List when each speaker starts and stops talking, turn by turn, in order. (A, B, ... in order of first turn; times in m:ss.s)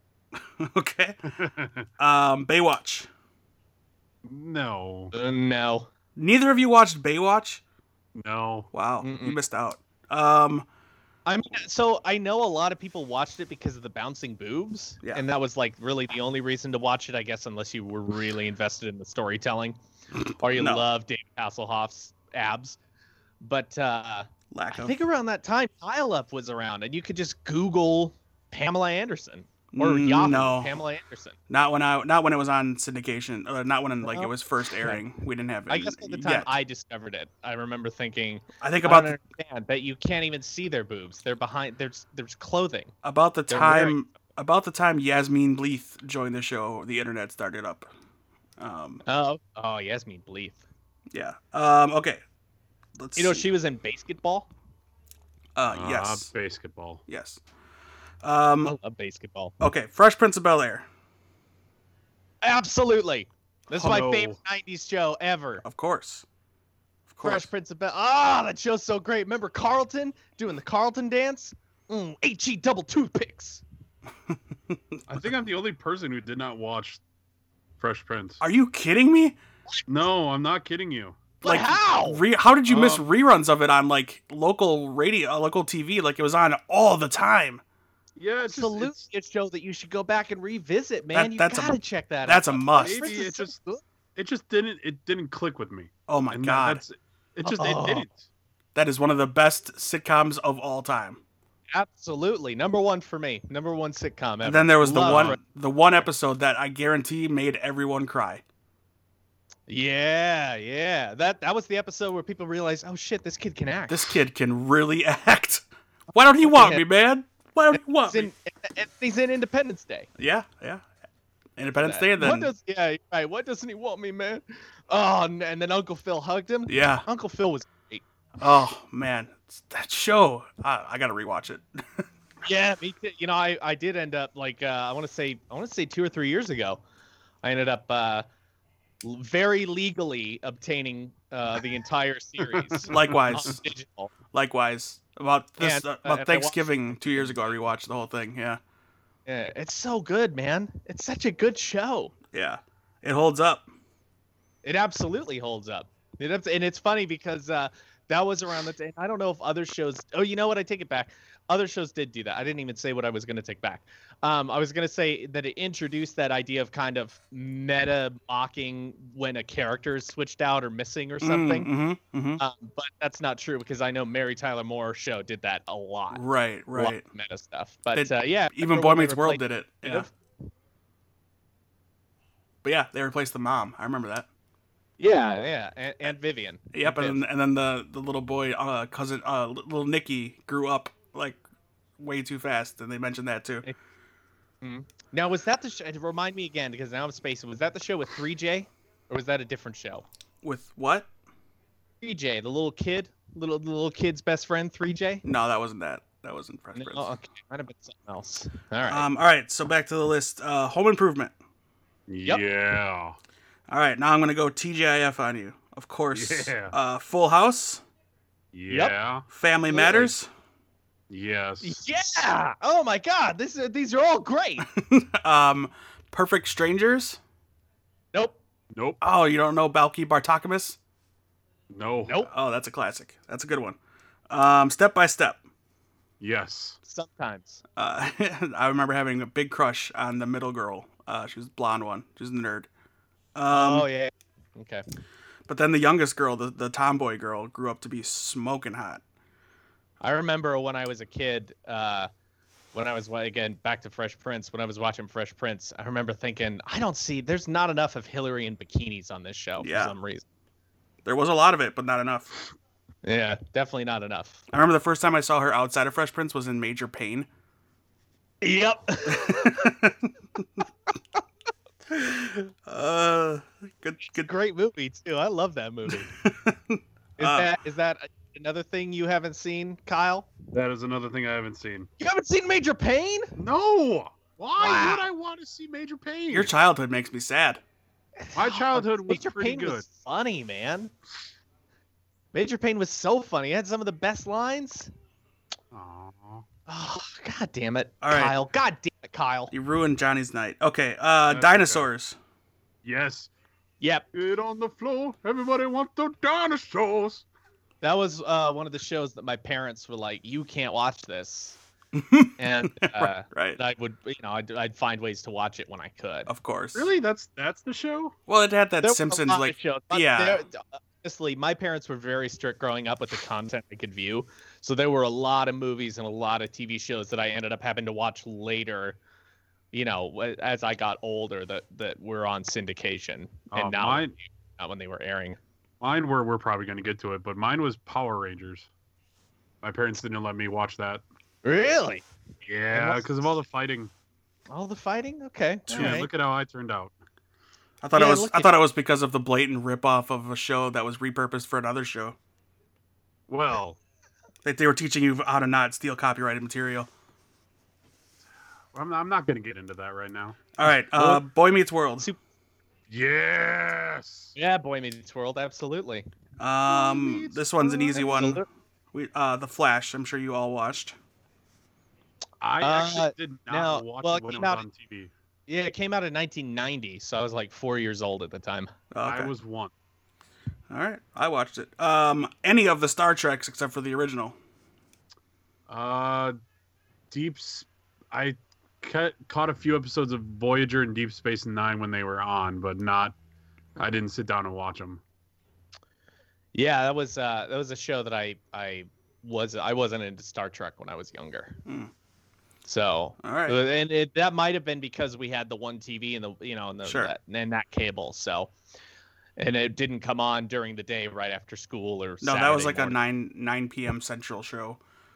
0:00.4-0:01.2 A
0:01.3-0:01.9 B
0:02.0-0:03.1 A
0:04.2-0:05.1 B
0:05.1-0:05.9 C
0:06.2-0:07.6 A
0:08.2-0:08.7 B
0:08.7-0:10.7 A
0:09.0-0:09.4 C
0:11.3-0:19.8 C
0:20.4-0:22.8 C
0:20.5-0:20.9 A
0:23.4-0:31.4 C
0:24.5-0:25.0 A
0:29.7-0:30.8 A
0:31.5-0:36.5 A
0:34.0-0:35.0 C
0:35.7-0:42.9 C
0:38.6-0:39.2 A
0:43.0-0:47.9 A
0:43.5-0:44.0 C
0:48.6-0:49.0 A
0:49.1-0:50.6 C
0:51.1-0:52.2 A
0:53.0-0:53.4 A
0:53.2-0:54.5 C
0:55.6-0:56.3 A
0:55.7-0:57.0 B
0:57.1-0:57.4 A
0:58.2-0:58.7 A
0:58.6-0:59.6 C
0:59.6-1:00.9 A
1:02.4-1:05.6 C
1:03.8-1:04.4 B
1:05.6-1:06.2 A
1:07.1-1:07.5 A
1:07.2-1:13.6 C
1:15.1-1:17.0 B
1:17.8-1:18.4 B
1:18.4-1:19.4 A
1:19.9-1:21.3 B
1:21.4-1:22.2 C
1:21.4-1:27.6 A
1:22.7-1:23.1 B
1:28.2-1:29.0 B
1:28.4-1:33.8 C
1:31.1-1:33.0 A
1:32.8-1:38.3 B
1:36.1-1:36.8 A
1:37.4-1:38.1 C
1:38.8-1:41.2 A
1:41.7-1:45.4 C
1:44.4-1:48.4 A
1:49.7-1:54.2 C
1:53.9-1:58.3 A
1:56.4-1:56.8 C
1:57.7-2:00.1 C
2:00.2-2:00.8 A
2:01.6-2:02.5 A
2:01.8-2:08.0 C
2:06.7-2:07.1 A
2:08.4-2:12.0 A
2:12.4-2:16.8 C
2:17.4-2:18.3 C
2:19.0-2:24.1 C
2:22.4-2:23.2 B
2:22.9-2:23.6 A
2:24.3-2:28.6 A
2:25.6-2:27.6 C
2:29.3-2:32.1 C
2:32.3-2:33.7 A
2:34.6-2:51.7 C
2:51.2-2:52.4 A
2:52.4-2:56.2 C
2:56.1-2:57.0 A
2:56.7-3:00.1 C
2:57.9-3:00.1 A
3:02.6-3:04.3 A
3:05.0-3:07.2 C
3:06.7-3:11.4 A
3:12.0-3:13.7 A
3:14.6-3:20.1 C
3:20.4-3:21.1 A
3:22.0-3:25.2 C
3:25.2-3:27.1 A
3:26.7-3:29.1 C
3:28.9-3:31.3 A
3:32.1-3:33.2 B
3:33.7-3:37.8 A
3:36.1-3:36.8 B
3:38.5-3:39.3 B
3:38.7-3:38.9 C
3:39.3-3:40.3 A
3:39.7-3:40.1 C
3:41.1-3:41.8 B
3:41.6-3:44.7 C
3:44.7-3:47.2 A
3:48.1-3:48.4 C
3:48.7-3:49.0 B
3:49.0-3:50.8 A
3:51.7-3:52.2 B
3:52.3-3:53.8 A
3:54.3-3:55.4 A
3:56.2-3:56.8 B
3:56.9-3:57.6 C
3:57.8-4:02.7 A
4:03.4-4:03.9 A
4:03.5-4:04.8 C
4:05.5-4:09.0 A
4:10.0-4:12.1 C
4:12.7-4:20.2 C
4:19.6-4:19.9 A
4:21.0-4:22.4 A
4:23.0-4:24.4 C
4:24.5-4:27.3 A
4:28.4-4:29.7 C
4:29.1-4:30.5 A
4:31.9-4:34.3 A
4:34.1-4:36.1 C
4:35.9-4:37.5 A
4:37.2-4:40.3 C
4:40.5-4:41.9 B
4:42.0-4:43.4 C
4:43.4-4:46.5 B
4:44.6-4:45.0 C
4:46.3-4:47.6 A
4:48.2-4:50.9 C
4:48.4-4:49.9 B
4:52.3-4:54.9 C
4:55.7-4:56.5 B
4:56.7-4:59.5 C
4:58.0-4:58.4 A
4:59.5-5:02.2 A
5:01.3-5:01.9 B
5:02.8-5:03.3 B
5:03.8-5:04.1 C
5:04.1-5:07.2 B
5:07.8-5:11.6 C
5:11.9-5:13.6 A
5:12.4-5:16.3 C
5:16.3-5:16.9 A
5:16.7-5:18.2 B
5:18.3-5:20.4 A
5:18.8-5:29.0 C
5:29.7-5:35.4 C
5:33.5-5:34.2 B
5:35.8-5:38.7 B
5:39.6-5:41.0 B
5:41.4-5:42.1 C
5:42.4-5:43.9 B
5:42.7-5:43.3 C
5:44.5-5:46.1 C
5:45.7-5:46.0 A
5:45.7-5:46.9 B
5:47.8-5:52.2 A
5:48.0-5:48.6 C
5:53.3-5:53.8 B
5:54.4-5:56.9 A
5:58.7-6:00.4 B
6:00.6-6:02.1 A
6:00.9-6:01.2 C
6:02.9-6:04.4 B
6:04.4-6:06.0 C
6:06.4-6:11.0 A
6:06.7-6:08.0 B
6:07.9-6:08.5 C
6:12.4-6:15.1 B
6:12.6-6:14.6 C
6:15.5-6:18.7 C
6:18.9-6:19.3 A
6:19.0-6:19.7 B
6:20.7-6:24.4 A
6:25.7-6:26.4 B
6:27.1-6:33.2 B
6:33.8-6:35.0 B
6:36.5-6:41.6 C
6:41.7-6:41.9 A
6:42.7-6:48.5 C
6:43.2-6:43.6 A
6:46.8-6:47.1 A
6:49.4-6:53.0 C
6:52.2-6:54.8 A